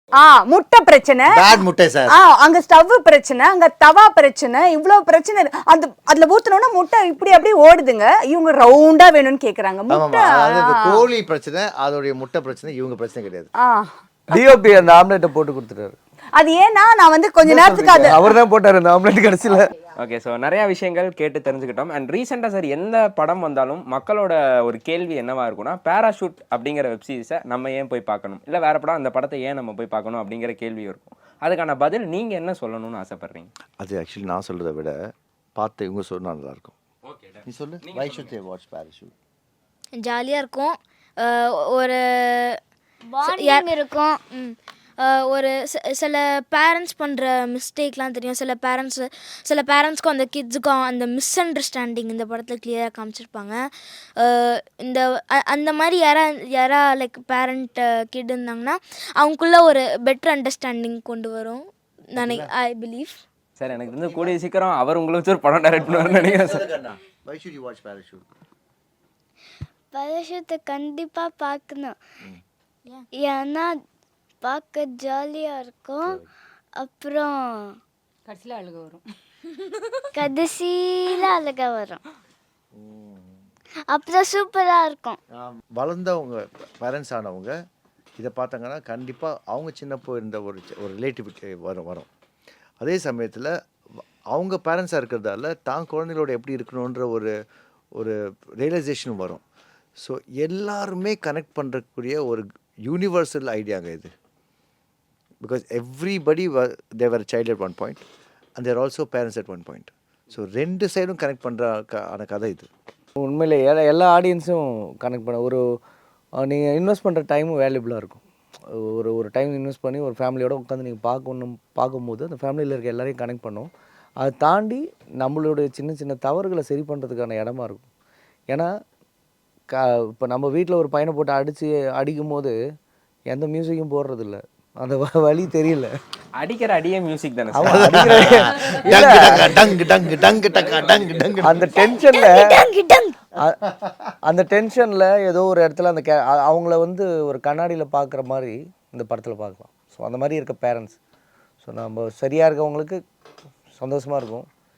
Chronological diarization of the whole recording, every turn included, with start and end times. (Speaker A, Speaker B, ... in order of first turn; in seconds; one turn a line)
Speaker A: 0.2-11.1
Speaker B: 1.3-2.1
Speaker B: 9.9-13.5
Speaker A: 13.7-14.0
Speaker C: 14.3-16.0
Speaker A: 16.4-18.2
Speaker B: 17.4-18.1
Speaker C: 17.9-19.7
Speaker D: 20.0-33.5
Speaker B: 33.8-35.0
Speaker B: 35.6-36.8
Speaker D: 37.1-38.3
Speaker B: 37.5-39.1
Speaker E: 40.0-42.6
Speaker F: 43.1-44.2
Speaker E: 43.2-43.7
Speaker E: 44.3-63.2
Speaker B: 62.2-62.5
Speaker D: 63.6-66.8
Speaker B: 65.8-68.2
Speaker F: 69.9-72.0
Speaker F: 73.2-73.8
Speaker F: 74.4-76.2
Speaker F: 76.8-77.8
Speaker A: 78.3-79.0
Speaker F: 80.1-82.0
Speaker B: 82.7-83.4
Speaker F: 83.9-85.2
Speaker B: 85.4-87.5
Speaker B: 88.2-92.1
Speaker B: 92.8-93.5
Speaker B: 94.3-97.3
Speaker B: 98.0-99.4
Speaker B: 100.0-104.1
Speaker B: 105.4-108.0
Speaker B: 108.6-112.7
Speaker C: 113.2-115.6
Speaker C: 116.4-127.9
Speaker C: 129.7-132.6
Speaker C: 133.3-135.9
Speaker D: 136.4-138.3
Speaker C: 137.5-139.7
Speaker B: 137.7-141.6
Speaker D: 140.4-141.3
Speaker C: 141.4-142.5
Speaker F: 141.7-143.2
Speaker C: 144.2-151.0
Speaker C: 151.6-153.0
Speaker C: 153.8-154.5